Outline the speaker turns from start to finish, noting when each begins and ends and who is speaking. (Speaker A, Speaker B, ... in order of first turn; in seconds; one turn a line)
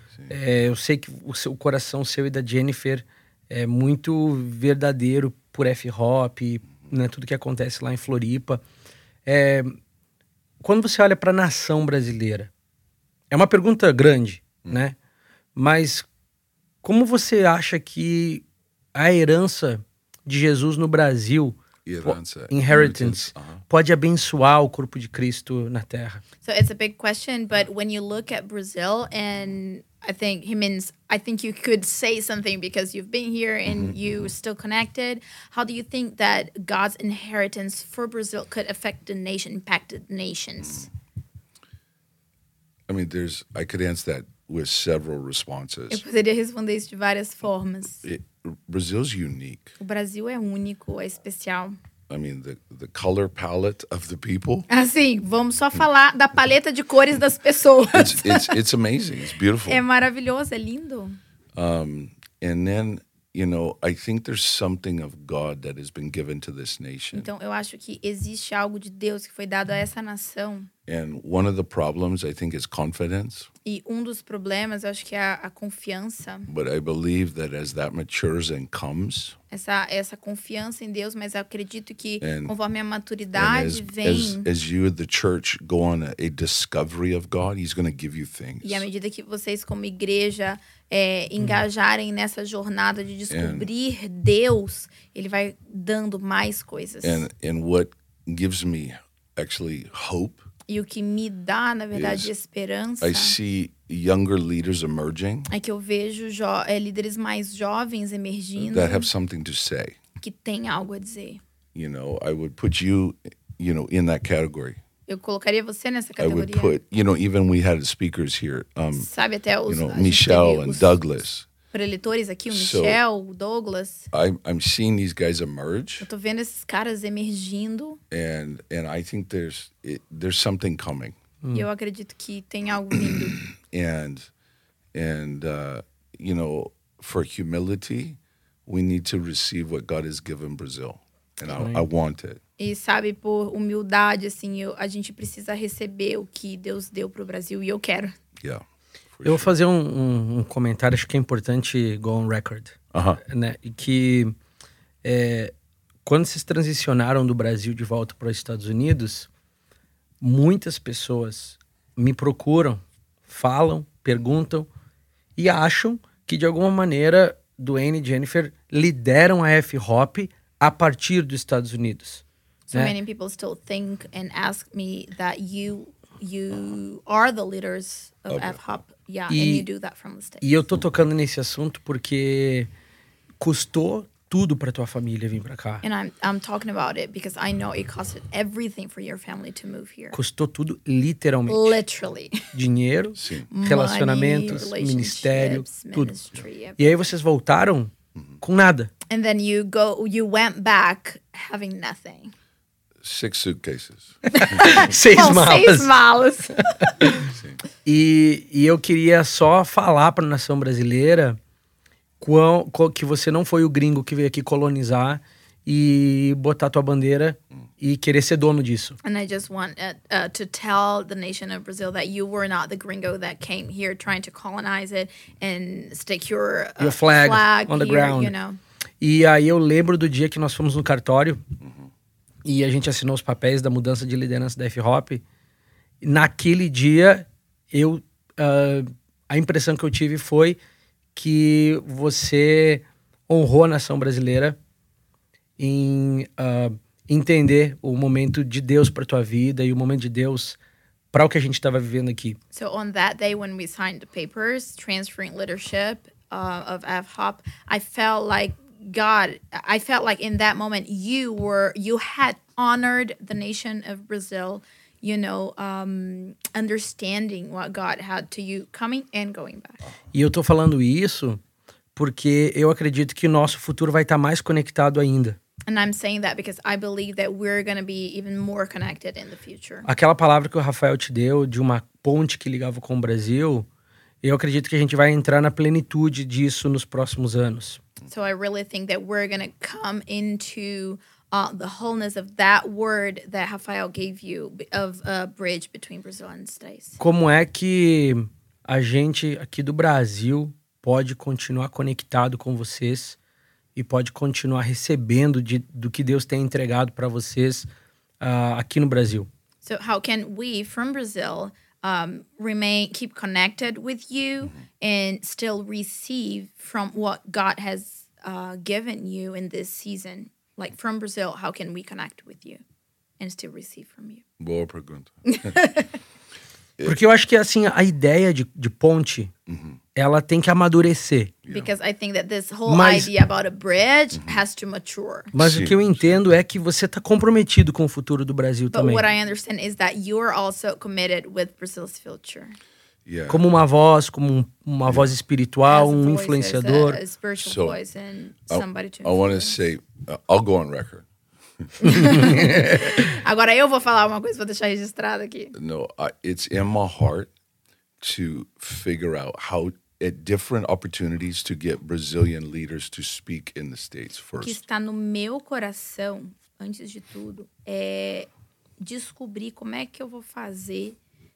Speaker A: 0.3-8.6
Speaker A: 9.2-9.8
Speaker A: 10.6-12.5
Speaker A: 13.3-14.9
Speaker A: 15.5-16.1
Speaker A: 16.8-18.4
Speaker A: 18.9-26.2
Speaker B: 21.8-23.6
Speaker C: 26.4-40.9
Speaker B: 33.7-34.0
Speaker B: 42.9-46.0
Speaker C: 45.9-48.0
Speaker B: 48.0-49.7
Speaker C: 49.8-51.8
Speaker B: 52.1-54.7
Speaker C: 54.7-58.6
Speaker B: 57.9-59.8
Speaker C: 59.6-61.2
Speaker B: 61.5-67.3
Speaker C: 67.1-70.7
Speaker B: 70.8-73.5
Speaker C: 73.6-76.5
Speaker B: 76.5-79.4
Speaker C: 79.5-84.5
Speaker B: 82.2-82.5
Speaker B: 83.3-88.9
Speaker C: 88.6-97.3
Speaker B: 93.3-93.7
Speaker B: 97.0-100.5
Speaker C: 100.7-103.4
Speaker B: 101.9-102.3
Speaker B: 103.0-105.5
Speaker C: 105.5-109.1
Speaker B: 108.6-110.0
Speaker C: 110.2-111.4
Speaker B: 111.7-114.8
Speaker C: 115.1-116.8
Speaker B: 116.2-119.1
Speaker C: 118.9-121.0
Speaker B: 119.7-121.5
Speaker C: 121.7-124.1
Speaker B: 122.5-123.0
Speaker B: 124.1-126.1
Speaker C: 126.0-128.0
Speaker B: 128.1-131.2
Speaker C: 131.5-133.4
Speaker B: 133.6-134.3
Speaker B: 134.9-142.4
Speaker A: 141.5-141.8
Speaker C: 142.6-148.1
Speaker B: 148.4-149.5
Speaker A: 149.2-154.3
Speaker B: 152.9-153.2
Speaker A: 155.0-155.5
Speaker A: 156.0-159.3
Speaker A: 160.2-164.7
Speaker A: 165.4-172.9
Speaker C: 172.7-180.6
Speaker B: 178.3-178.7
Speaker A: 179.3-179.7
Speaker A: 180.4-182.7
Speaker A: 183.4-185.8
Speaker C: 185.8-190.2
Speaker A: 190.1-191.8
Speaker C: 191.5-192.5
Speaker A: 192.5-196.1
Speaker B: 193.2-193.5
Speaker C: 193.5-197.1
Speaker A: 196.8-198.9
Speaker C: 199.1-202.3
Speaker B: 203.0-204.6
Speaker A: 204.3-205.9
Speaker C: 204.3-207.0
Speaker A: 206.6-207.3
Speaker B: 207.3-207.6
Speaker A: 207.8-211.4
Speaker A: 212.2-219.0
Speaker C: 219.0-228.6
Speaker A: 226.8-228.3
Speaker A: 229.0-231.4
Speaker A: 232.4-235.2
Speaker A: 236.0-240.6
Speaker A: 241.1-244.6
Speaker A: 245.6-250.6
Speaker A: 251.1-252.4
Speaker C: 252.5-269.9
Speaker A: 270.1-271.4
Speaker A: 271.9-275.4
Speaker C: 275.7-279.9
Speaker A: 279.8-283.7
Speaker A: 284.2-287.8
Speaker C: 288.1-297.0
Speaker A: 297.0-303.2
Speaker A: 303.7-307.7
Speaker A: 308.2-309.3
Speaker C: 309.6-322.6
Speaker C: 323.2-324.2
Speaker B: 324.4-325.5
Speaker C: 325.3-325.9
Speaker A: 326.8-329.3
Speaker B: 329.5-329.8
Speaker A: 329.9-331.3
Speaker B: 331.4-331.7
Speaker C: 331.5-335.3
Speaker A: 332.7-333.1
Speaker B: 334.1-334.4
Speaker A: 335.3-339.1
Speaker B: 335.4-336.2
Speaker C: 338.7-342.6
Speaker B: 343.1-343.4
Speaker A: 343.3-347.0
Speaker C: 345.7-349.6
Speaker B: 347.4-347.8
Speaker B: 348.5-351.1
Speaker C: 351.8-355.5
Speaker A: 351.9-352.9
Speaker B: 355.5-357.3
Speaker B: 358.0-364.6
Speaker C: 364.4-368.3
Speaker C: 368.8-371.0